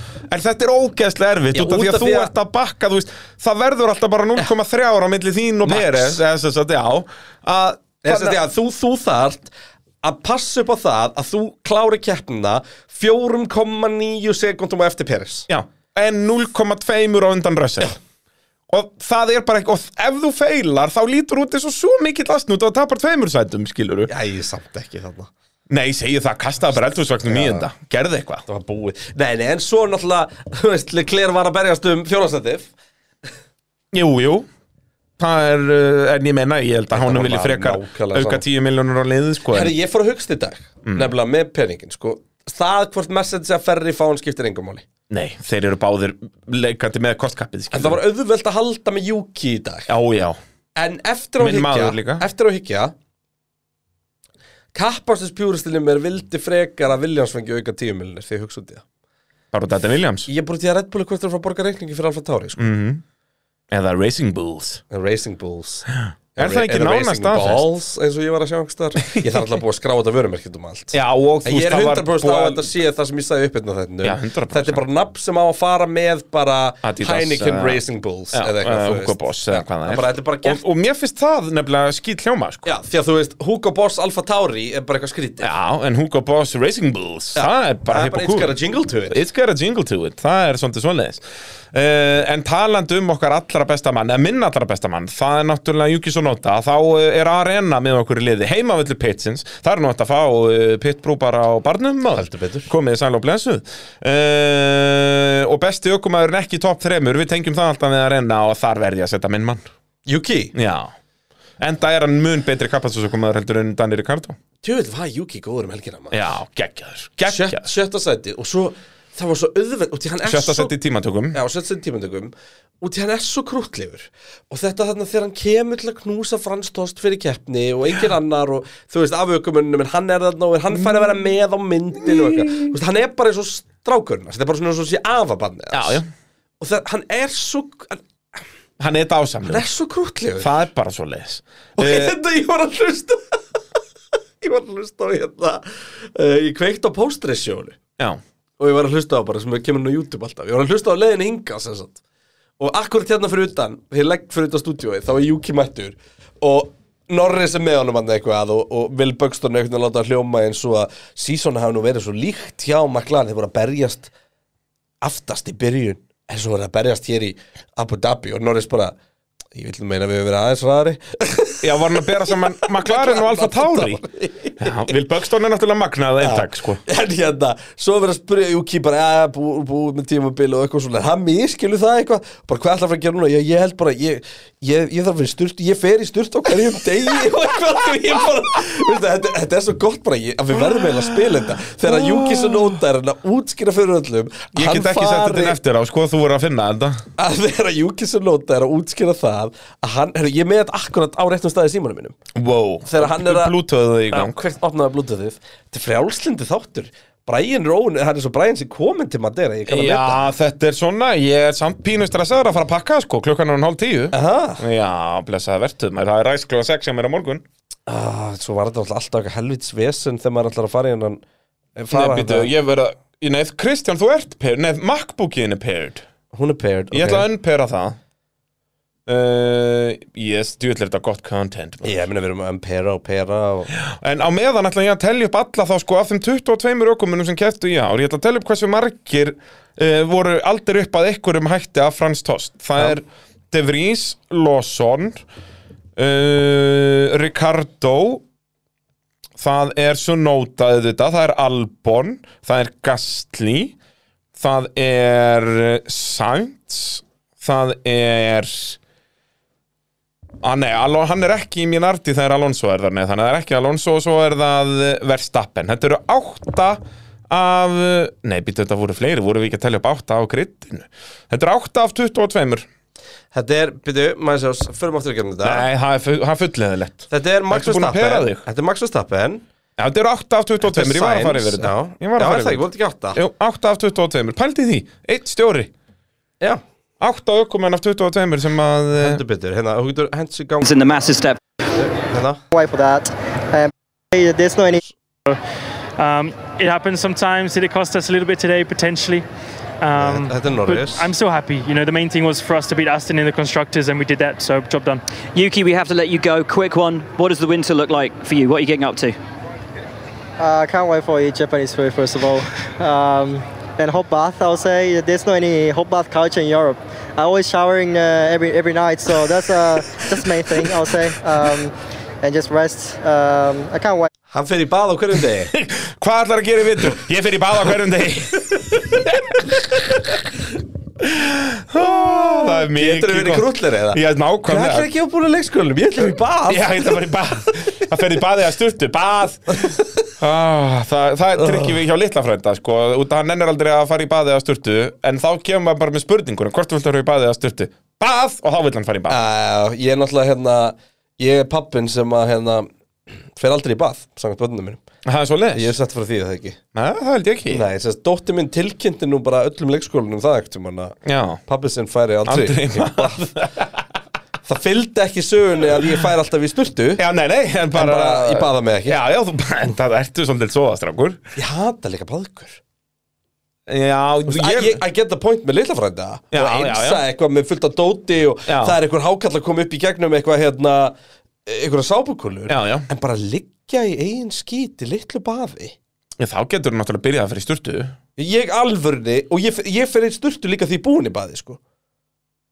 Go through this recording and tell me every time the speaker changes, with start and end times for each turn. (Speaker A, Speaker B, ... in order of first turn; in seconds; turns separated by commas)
Speaker A: 0.3-8.4, Speaker B: 1.5-2.3, Speaker B: 5.6-6.2, Speaker B: 8.0-15.5, Speaker A: 15.5-18.0, Speaker A: 18.7-24.1, Speaker B: 24.1-25.3, Speaker A: 25.7-28.4, Speaker B: 27.2-27.7, Speaker B: 28.4-32.7, Speaker A: 33.9-34.5, Speaker A: 35.2-39.7, Speaker B: 36.9-38.4, Speaker B: 39.5-44.8, Speaker A: 40.8-41.1, Speaker A: 45.1-48.0, Speaker B: 47.7-49.9, Speaker A: 49.9-50.4, Speaker B: 50.8-52.9, Speaker A: 51.4-52.2, Speaker B: 54.7-58.8, Speaker A: 59.5-60.3, Speaker B: 60.3-62.7, Speaker A: 62.6-63.0, Speaker A: 63.7-64.8, Speaker B: 64.9-80.6, Speaker A: 65.9-67.6, Speaker A: 69.1-69.4, Speaker A: 70.9-72.7, Speaker A: 74.0-74.8, Speaker A: 76.8-77.8, Speaker A: 78.3-82.7, Speaker B: 82.6-85.5, Speaker A: 85.4-88.5, Speaker B: 87.3-89.2, Speaker A: 89.1-109.7, Speaker B: 102.1-102.7, Speaker B: 110.0-110.5, Speaker A: 110.5-110.9, Speaker A: 111.6-114.3, Speaker B: 114.6-116.2, Speaker A: 116.1-117.7, Speaker B: 117.2-120.7, Speaker A: 120.2-121.4, Speaker B: 121.3-136.0, Speaker A: 132.0-132.7, Speaker A: 135.7-136.1, Speaker B: 136.6-138.4, Speaker A: 138.8-139.6, Speaker B: 139.4-140.6, Speaker A: 140.4-142.2, Speaker B: 141.8-143.4, Speaker B: 144.4-147.8, Speaker B: 148.6-152.0, Speaker B: 152.6-164.1, Speaker B: 165.0-168.9, Speaker B: 169.5-174.9, Speaker A: 171.6-174.0, Speaker A: 174.6-176.8, Speaker B: 176.2-195.6, Speaker A: 190.6-191.2, Speaker A: 191.8-192.8, Speaker A: 194.5-197.0, Speaker B: 197.2-202.2, Speaker A: 202.3-204.4, Speaker B: 202.8-203.5, Speaker B: 204.1-210.2, Speaker A: 209.7-217.4, Speaker B: 214.1-214.6, Speaker B: 217.9-221.2, Speaker B: 221.8-222.5, Speaker A: 221.9-226.0, Speaker B: 226.3-227.3, Speaker A: 226.9-228.0, Speaker A: 229.1-232.1, Speaker B: 231.8-233.7, Speaker A: 233.7-245.2, Speaker A: 246.0-248.2, Speaker A: 249.4-253.8, Speaker A: 254.3-258.8, Speaker A: 260.4-272.7, Speaker B: 273.3-275.6, Speaker A: 275.4-278.4, Speaker B: 277.1-279.4, Speaker A: 279.8-285.7, Speaker B: 280.6-283.2, Speaker A: 287.0-289.2, Speaker B: 289.0-290.7, Speaker C: 290.6-291.4, Speaker B: 291.8-292.4, Speaker D: 292.5-294.8, Speaker E: 296.0-299.2, Speaker E: 299.8-305.0, Speaker B: 299.9-301.1, Speaker C: 305.3-309.1, Speaker D: 310.4-324.1, Speaker B: 324.3-325.5, Speaker A: 325.5-330.2, Speaker A: 331.0-334.9, Speaker B: 331.8-336.8, Speaker A: 336.5-349.2, Speaker B: 341.4-341.7, Speaker B: 349.1-352.7, Speaker B: 353.3-354.8, Speaker A: 355.0-355.7, Speaker B: 355.5-356.6, Speaker A: 356.7-357.6, Speaker B: 357.5-363.3, Speaker A: 361.0-361.4, Speaker A: 362.2-363.8, Speaker B: 364.4-367.0, Speaker A: 367.0-371.2, Speaker B: 367.7-369.0, Speaker B: 371.4-372.6, Speaker A: 373.7-374.8, Speaker B: 374.3-380.9, Speaker A: 376.3-377.0, Speaker A: 378.5-378.8, Speaker B: 381.4-385.8, Speaker A: 382.5-382.9, Speaker A: 386.2-387.9, Speaker B: 388.2-391.6